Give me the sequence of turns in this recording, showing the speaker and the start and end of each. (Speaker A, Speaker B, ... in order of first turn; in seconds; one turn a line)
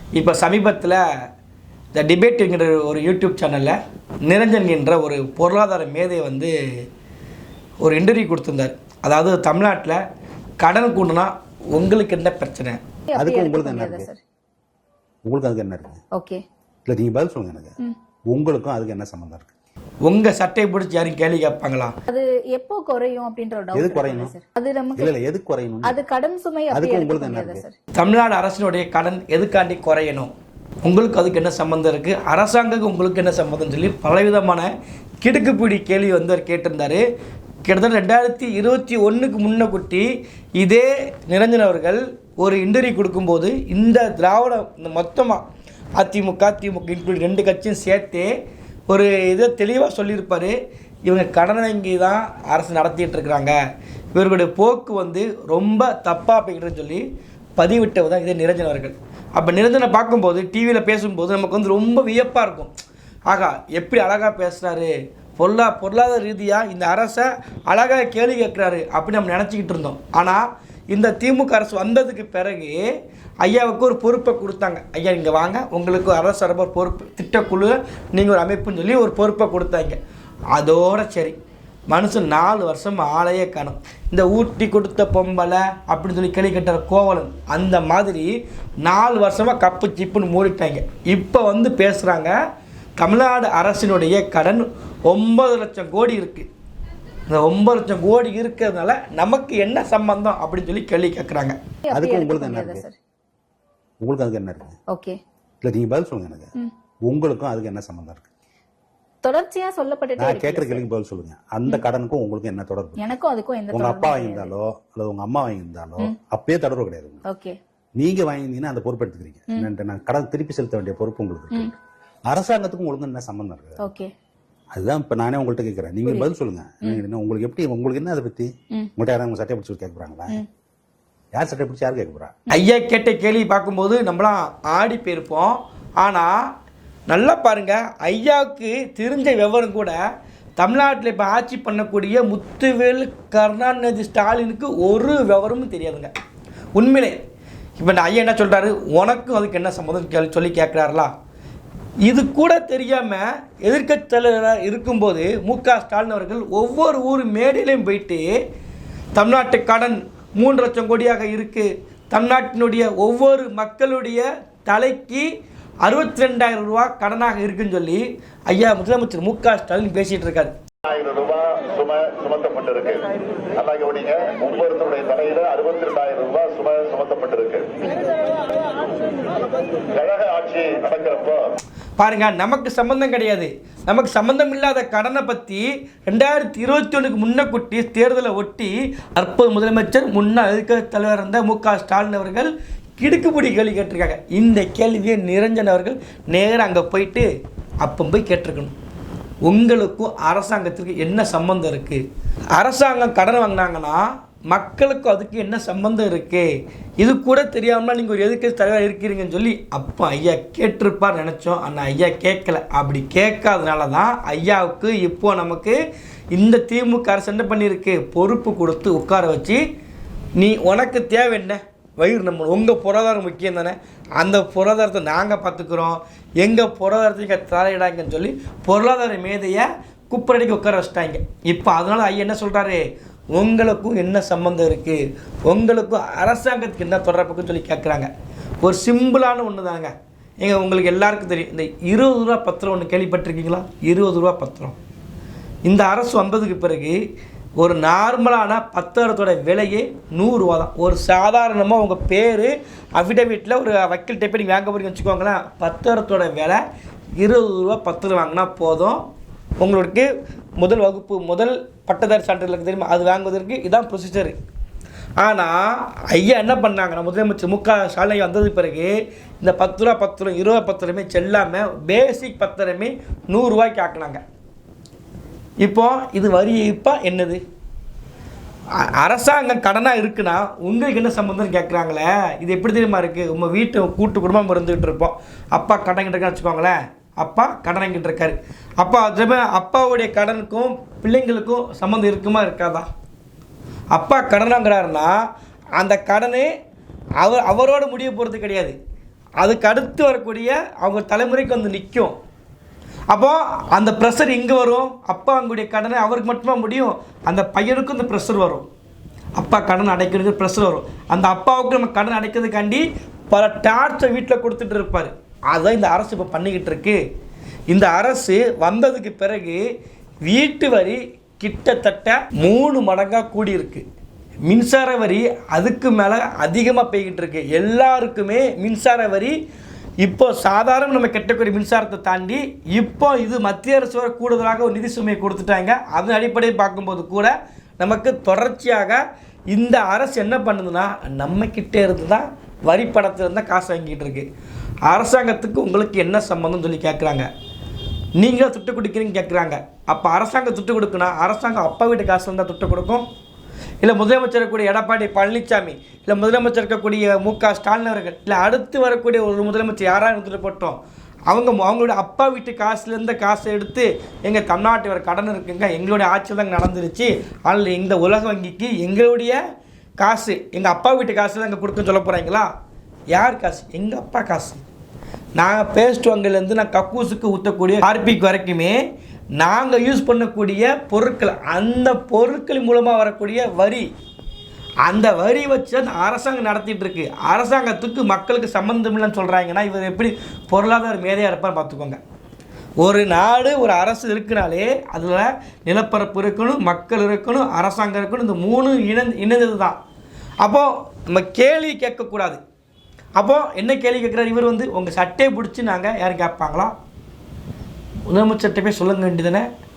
Speaker A: 0.1-1.0
Speaker A: 1.9-6.5
Speaker A: 7.8-10.0
Speaker A: 10.6-12.8
Speaker B: 13.1-14.2
Speaker C: 13.1-14.1
Speaker C: 15.2-16.0
Speaker B: 16.1-16.4
Speaker C: 16.8-17.8
Speaker C: 18.3-19.5
Speaker A: 20.0-21.9
Speaker B: 22.1-25.1
Speaker C: 23.7-24.3
Speaker C: 24.9-26.0
Speaker B: 25.8-27.7
Speaker C: 26.7-27.7
Speaker A: 27.9-30.3
Speaker A: 30.8-34.7
Speaker A: 35.2-37.0
Speaker A: 37.6-40.0
Speaker A: 40.6-45.4
Speaker A: 46.0-48.3
Speaker A: 48.9-50.5
Speaker A: 51.0-53.6
Speaker A: 54.1-57.0
Speaker A: 57.6-62.7
Speaker A: 63.3-72.8
Speaker A: 73.4-80.0
Speaker A: 80.5-81.3
Speaker A: 81.9-88.3
Speaker A: 88.8-92.3
Speaker A: 93.0-96.5
Speaker A: 97.3-101.5
Speaker B: 101.9-103.0
Speaker C: 101.9-102.9
Speaker C: 104.0-104.8
Speaker B: 104.9-105.2
Speaker C: 105.6-106.5
Speaker C: 107.0-108.3
Speaker B: 109.2-110.8
Speaker C: 110.2-113.1
Speaker B: 113.0-114.5
Speaker C: 113.7-117.2
Speaker B: 117.2-117.6
Speaker C: 118.0-121.7
Speaker C: 122.2-123.8
Speaker B: 123.8-124.1
Speaker C: 124.7-130.4
Speaker C: 131.3-132.3
Speaker A: 132.5-136.4
Speaker A: 137.1-140.0
Speaker A: 140.6-146.1
Speaker A: 146.8-147.2
Speaker A: 147.8-151.1
Speaker A: 152.0-158.2
Speaker A: 159.1-165.3
Speaker A: 165.8-170.5
Speaker D: 170.8-177.9
Speaker D: 179.9-181.5
Speaker A: 182.0-197.3
Speaker A: 197.8-198.7
Speaker A: 199.4-202.0
Speaker A: 202.6-206.5
Speaker A: 207.0-215.8
Speaker A: 216.3-219.6
Speaker A: 220.4-238.1
Speaker A: 238.6-244.8
Speaker A: 245.7-247.0
Speaker A: 247.6-256.6
Speaker A: 257.2-259.0
Speaker A: 259.6-264.3
Speaker A: 265.2-274.2
Speaker A: 275.6-277.4
Speaker A: 279.0-292.9
Speaker A: 293.9-295.2
Speaker A: 295.8-296.5
Speaker A: 297.2-298.7
Speaker A: 299.4-302.1
Speaker A: 303.1-308.6
Speaker A: 309.4-317.0
Speaker A: 317.7-319.6
Speaker A: 320.2-323.8
Speaker A: 324.5-329.3
Speaker A: 330.0-339.0
Speaker A: 339.5-344.2
Speaker A: 344.9-347.3
Speaker A: 348.2-353.1
Speaker A: 353.8-369.4
Speaker A: 370.0-372.5
Speaker A: 373.1-374.6
Speaker A: 375.4-378.8
Speaker A: 379.4-383.9
Speaker A: 384.9-392.0
Speaker A: 392.8-399.8
Speaker A: 400.4-402.4
Speaker A: 403.2-406.7
Speaker A: 408.1-409.5